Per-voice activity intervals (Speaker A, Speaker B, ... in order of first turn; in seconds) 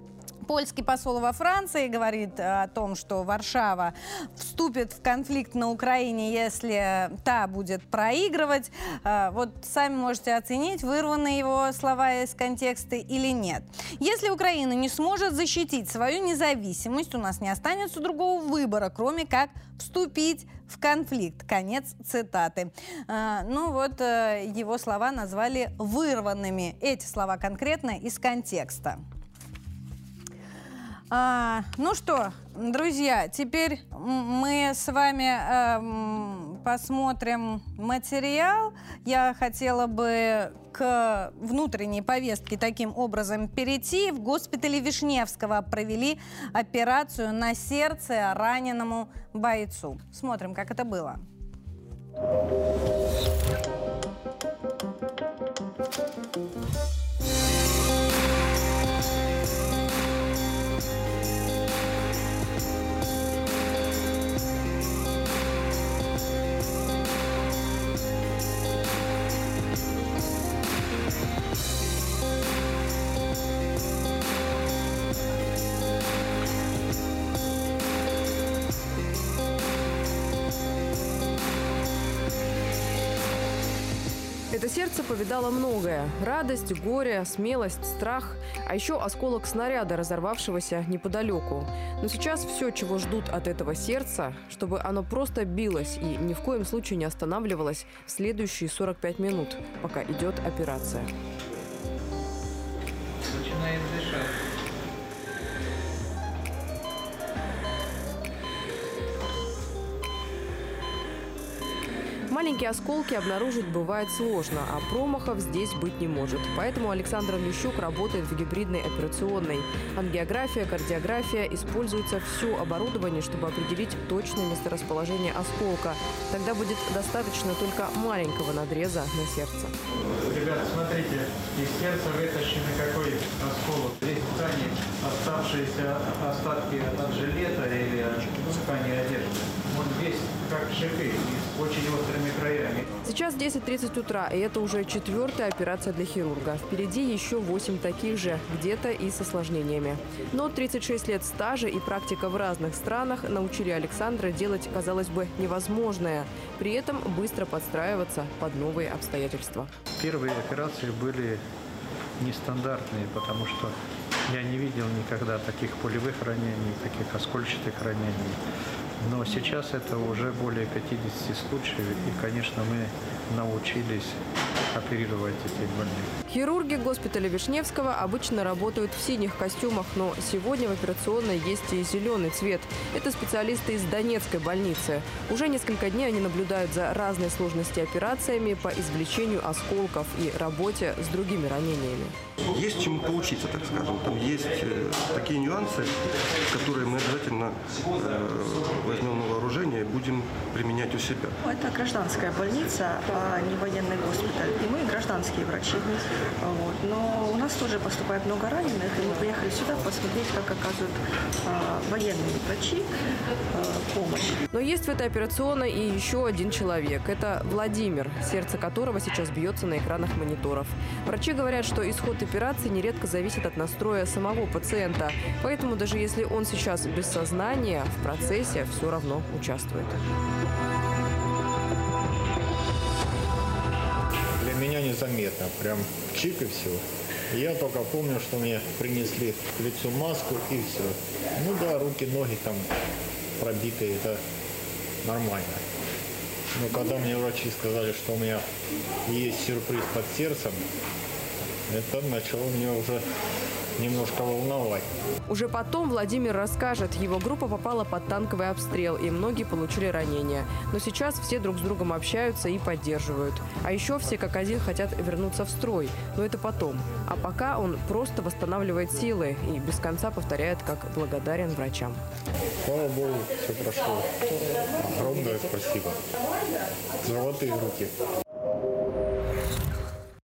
Speaker A: 0.4-29.0, 31.1-51.2
Speaker B: 84.5-101.1, 112.3-129.7, 143.0-159.7, 176.3-192.1, 214.5-230.0, 255.3-272.0
Speaker C: 103.2-104.3, 130.1-143.0, 159.9-161.4, 162.2-163.7, 164.3-168.4, 169.0-174.2, 174.7-176.1
Speaker D: 192.5-201.3
Speaker E: 201.4-212.9, 213.5-214.4
Speaker F: 234.4-242.7, 243.4-244.2, 245.0-245.6, 246.5-248.4, 249.1-250.6, 251.7-253.0, 253.8-254.8, 272.6-276.0, 277.0-277.9